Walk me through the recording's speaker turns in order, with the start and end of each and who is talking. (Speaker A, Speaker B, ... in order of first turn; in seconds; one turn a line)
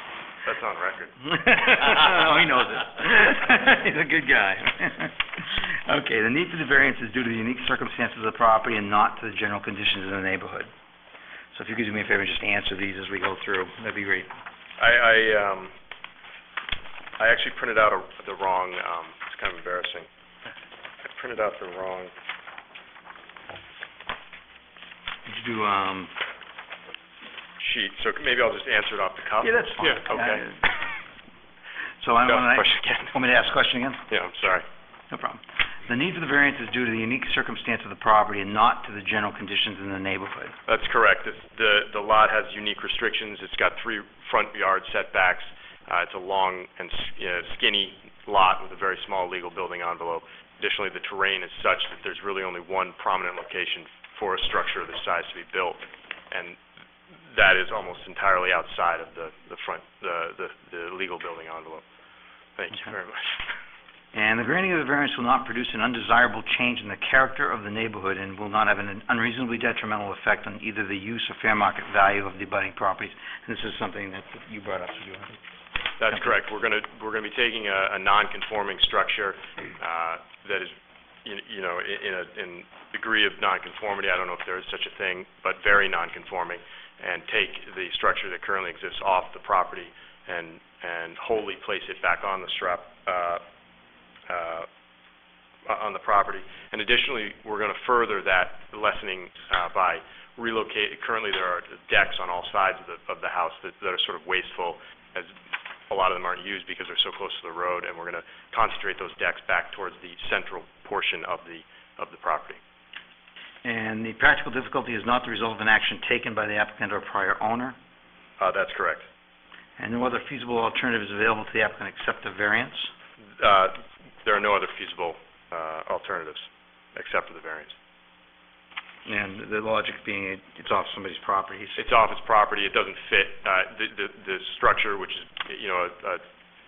Speaker A: 0.4-1.2
Speaker B: 1.3-10.7
Speaker B: 11.5-14.3
Speaker A: 14.8-15.7
Speaker A: 17.2-20.1
Speaker A: 21.0-22.1
Speaker B: 25.2-26.1
Speaker A: 27.6-30.4
Speaker B: 29.4-30.8
Speaker B: 32.0-34.0
Speaker A: 32.2-33.1
Speaker A: 34.1-34.6
Speaker B: 35.1-40.5
Speaker A: 40.6-56.6
Speaker A: 57.3-61.8
Speaker A: 62.6-63.5
Speaker B: 64.1-75.4
Speaker A: 76.0-80.7
Speaker A: 81.2-93.4
Speaker A: 94.3-94.7
Speaker A: 95.7-105.3
Speaker A: 105.9-112.6
Speaker B: 113.6-117.8
Speaker A: 118.4-119.0
Speaker B: 119.8-122.9
Speaker A: 123.2-127.7
Speaker B: 129.1-131.9
Speaker A: 131.8-136.2